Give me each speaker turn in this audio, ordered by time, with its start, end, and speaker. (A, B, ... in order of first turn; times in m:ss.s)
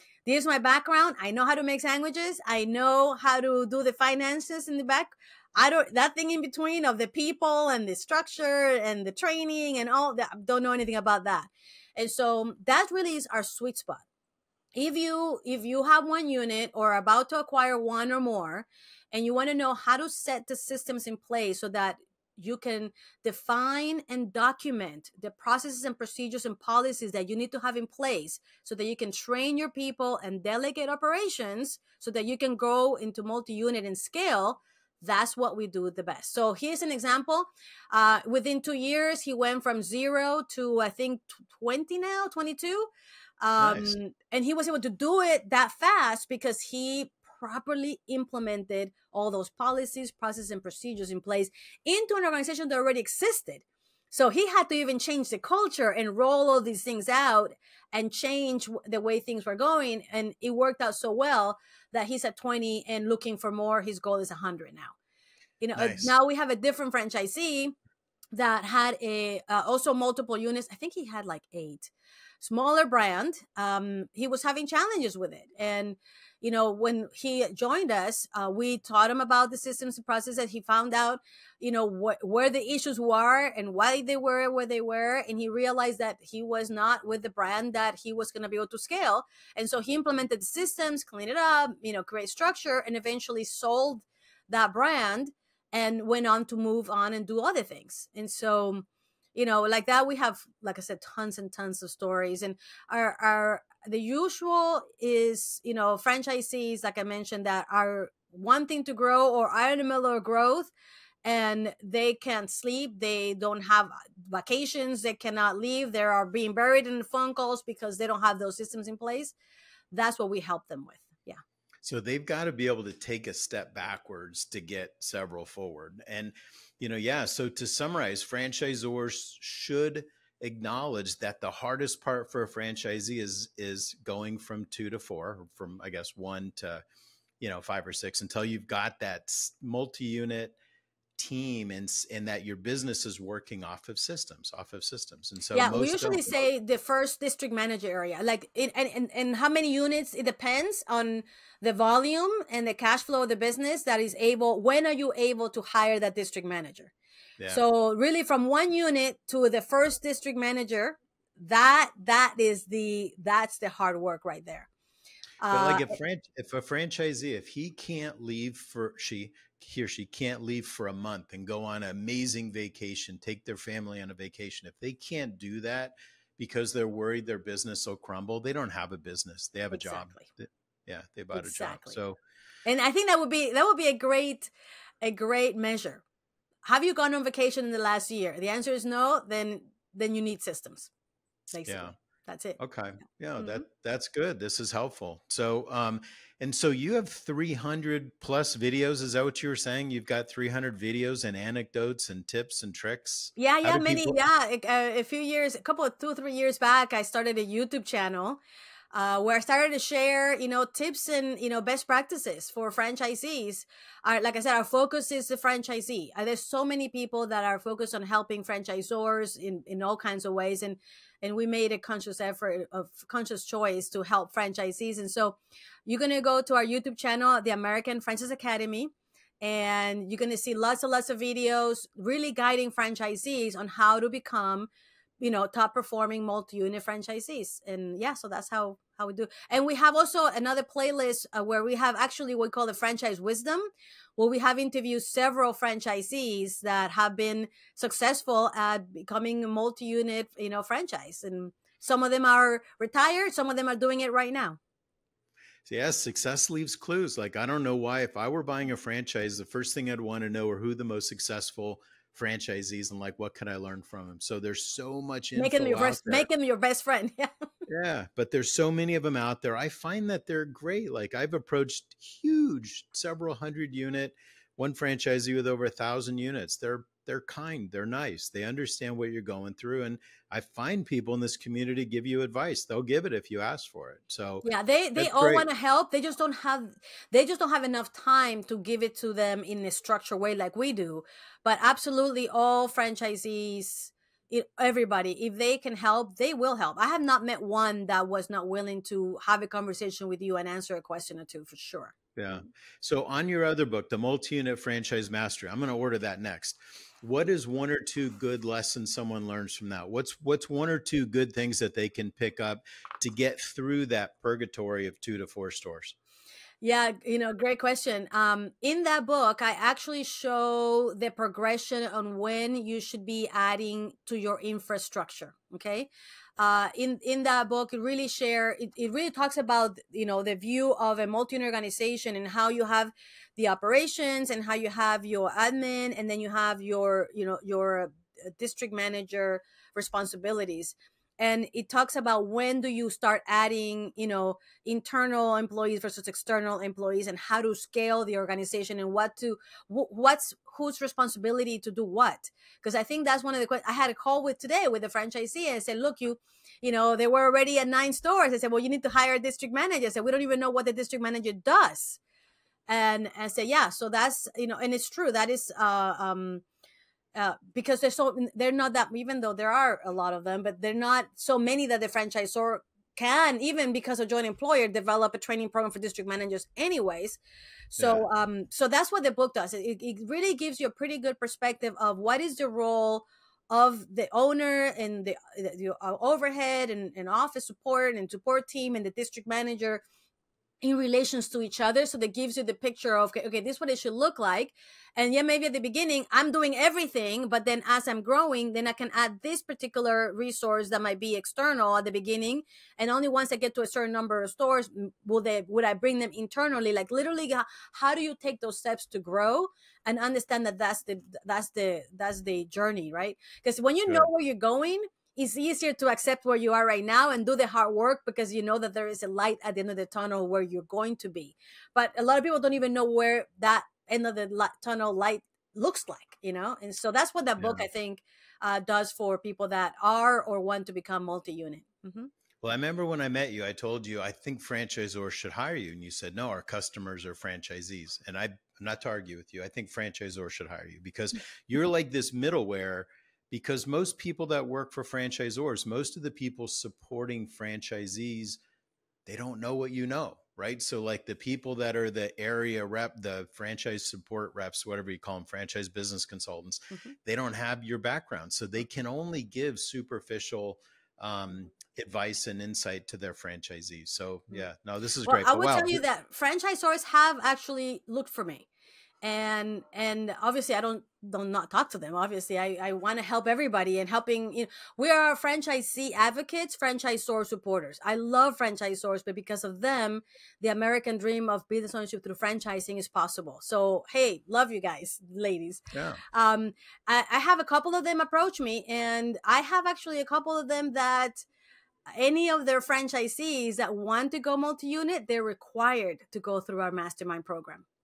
0:00.2-0:14.0 A
0:14.7-1:05.0 A
0:43.6-0:43.9 B
1:05.6-1:07.7 A
1:05.8-1:06.1 B
1:08.3-1:50.7 A
1:51.2-1:59.3 A
1:59.9-2:01.4 A
2:01.8-2:16.8 B
2:17.4-2:20.6 B
2:21.2-2:26.3 B
2:25.5-2:36.9 A
2:37.5-2:44.7 A
2:45.4-2:45.9 A
2:45.5-3:02.2 B
2:59.7-3:00.3 A
3:01.3-3:02.0 A
3:02.6-3:06.0 A
3:06.6-3:10.9 A
3:11.5-3:12.6 A
3:11.6-3:11.9 B
3:12.6-3:24.2 B
3:13.4-3:13.6 A
3:23.4-3:28.4 A
3:28.9-3:54.7 A
3:55.2-4:14.6 A
4:15.6-4:26.3 B
4:25.4-4:27.3 A
4:27.7-4:45.4 B
4:44.4-5:01.9 A
5:02.2-5:16.0 B
5:16.6-6:02.0 A
6:02.7-6:06.4 A
6:07.1-6:17.2 A
6:17.7-6:29.8 A
6:17.8-6:18.0 B
6:30.6-7:12.1 A
7:07.4-7:07.7 B
7:12.4-7:28.4 B
7:29.0-7:45.8 B
7:45.0-7:48.4 A
7:49.0-8:11.2 A
8:05.7-8:06.0 B
8:11.9-8:17.6 A